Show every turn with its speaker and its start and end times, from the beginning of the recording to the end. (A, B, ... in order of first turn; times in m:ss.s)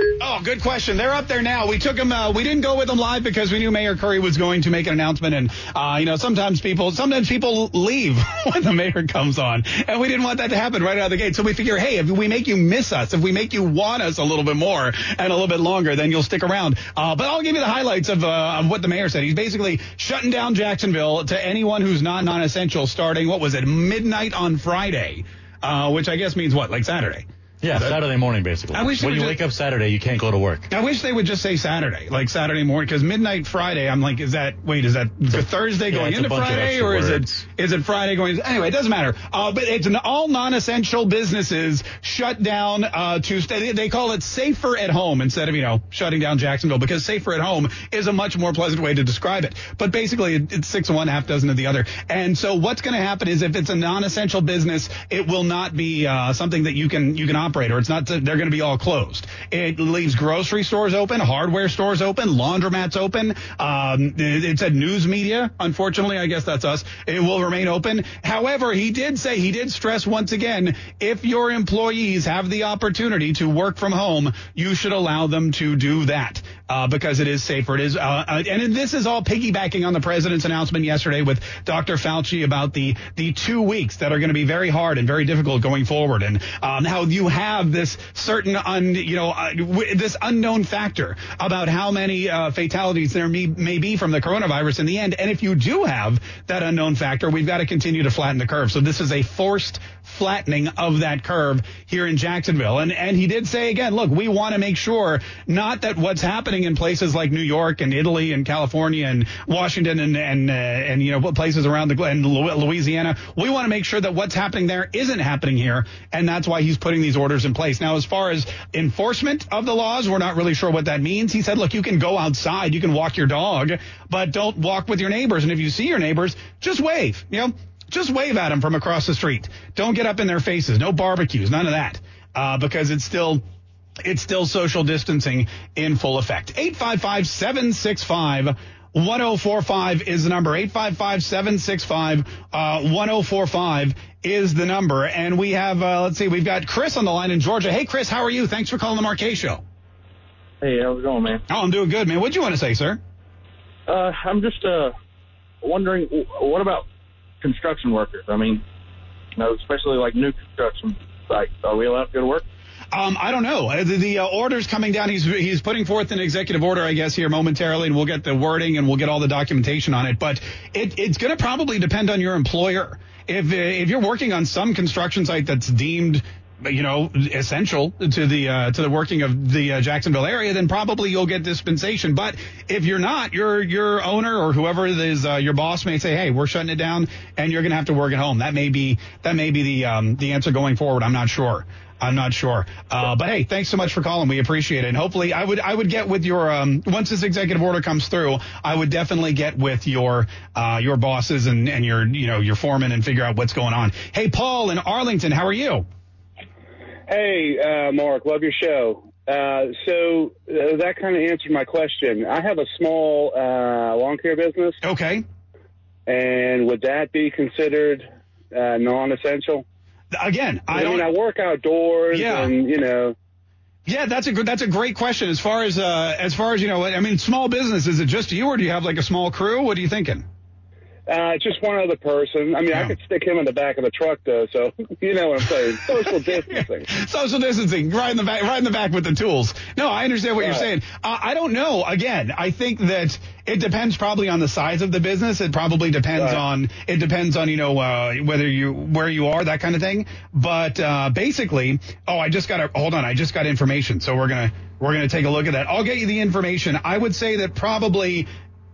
0:00.2-0:28.0 A
0:27.6-0:30.7 B
0:28.7-0:29.4 A
0:30.7-2:13.4 A
0:35.3-0:37.4 B
2:14.0-2:29.6 A
2:30.6-2:31.4 C
2:31.5-2:33.0 A
2:33.9-2:34.8 C
2:39.4-2:42.4 C
2:42.9-3:25.8 A
3:27.1-3:34.8 D
3:34.8-3:35.2 A
3:36.1-3:39.6 D
3:40.1-3:41.1 A
3:40.7-3:43.1 D
3:42.1-3:42.5 A
3:43.8-3:50.2 A
3:51.1-3:56.9 D
3:52.7-3:53.0 A
3:56.4-4:18.3 A
4:00.4-4:00.7 D
4:06.2-4:06.4 D